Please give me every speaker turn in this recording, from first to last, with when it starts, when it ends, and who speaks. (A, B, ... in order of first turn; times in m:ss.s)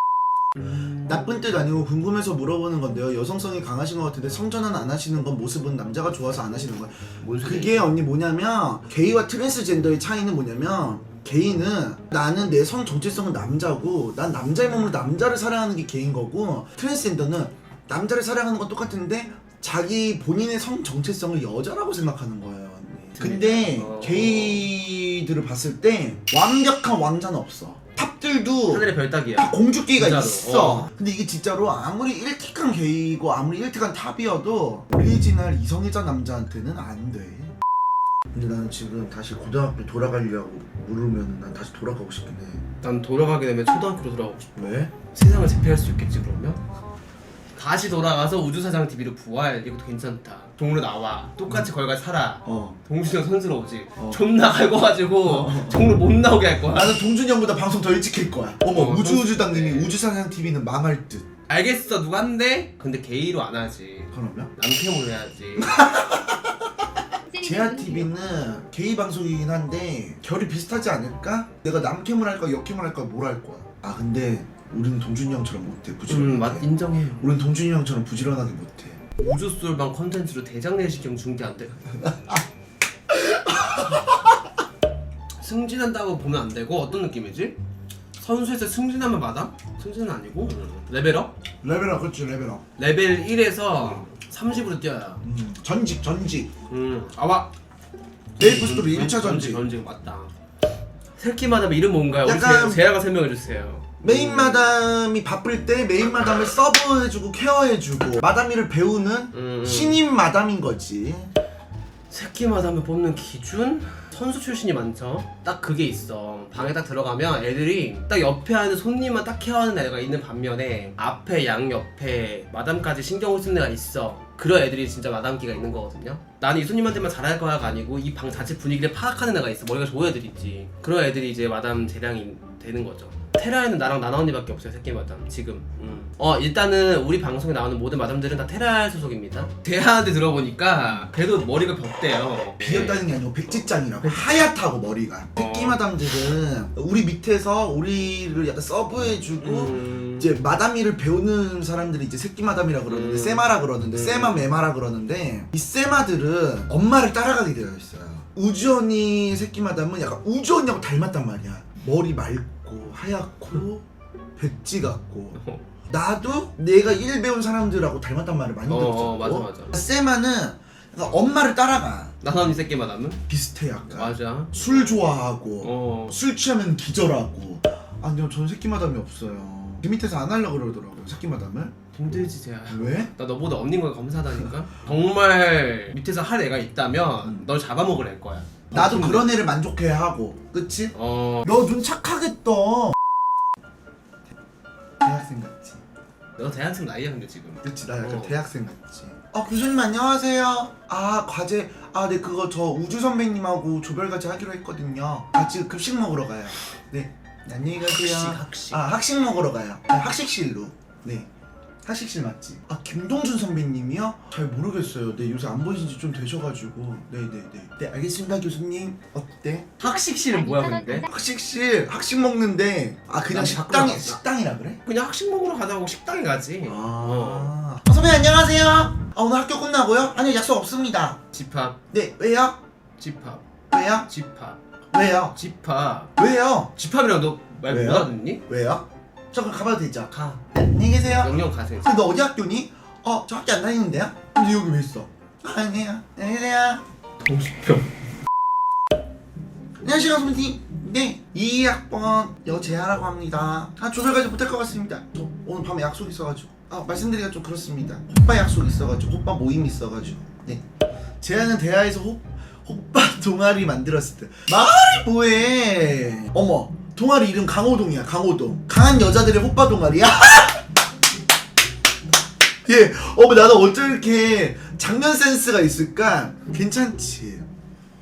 0:00.6-0:01.2 A
0:00.7-0:37.5 B
0:07.2-0:07.9 A
0:23.2-0:24.7 A
0:28.7-0:30.9 A
0:38.3-0:42.6 B
0:42.8-0:46.6 A
0:44.6-0:44.9 B
0:47.5-0:57.0 A
0:52.4-0:52.8 B
0:54.0-0:54.2 B
0:55.2-0:55.8 B
0:56.7-1:01.3 B
0:58.7-1:00.0 A
1:01.5-1:05.7 A
1:04.1-1:04.5 B
1:05.6-1:19.0 B
1:16.1-1:17.3 A
1:19.2-1:22.4 A
1:23.1-1:24.1 B
1:25.4-1:27.6 A
1:28.2-1:31.3 A
1:31.6-1:32.6 B
1:32.8-1:35.2 A
1:35.2-1:36.5 B
1:36.7-1:37.5 A
1:38.4-1:40.3 A
1:38.4-1:39.6 B
1:41.2-1:44.7 A
1:42.2-1:42.8 B
1:44.0-1:51.3 B
1:49.3-1:50.0 A
1:52.1-2:23.1 A
2:22.6-2:43.8 B
2:23.9-2:24.3 A
2:25.4-2:25.8 A
2:29.4-2:30.3 A
2:32.8-2:34.4 A
2:44.4-2:52.2 B
2:48.7-2:49.7 A
2:52.2-2:53.2 A
2:53.3-3:01.8 B
2:53.9-2:55.0 A
2:55.6-2:56.2 A
3:01.9-3:09.3 A
3:02.7-3:03.1 B
3:07.2-3:07.5 B
3:08.7-3:12.9 B
3:10.9-3:11.5 A
3:15.0-3:15.8 B
3:16.4-3:18.4 A
3:17.6-3:31.3 B
3:27.8-3:28.8 A
3:31.8-3:39.7 B
3:39.8-3:41.1 A
3:40.9-3:44.8 B
3:43.3-3:44.2 A
3:44.8-3:47.5 A
3:46.6-3:51.2 B
3:51.3-3:51.8 A
3:51.9-3:52.6 B
3:53.0-3:53.4 A
3:53.7-3:54.1 B
3:54.1-3:54.6 A
3:54.9-3:55.4 B
3:55.3-3:56.1 A
3:56.2-3:56.7 B
3:56.8-3:58.4 A
3:57.7-4:06.8 B
4:00.1-4:00.4 A
4:01.1-4:01.9 A
4:07.2-4:07.9 A
4:09.8-4:20.6 B
4:21.2-4:30.6 B
4:32.6-4:37.5 B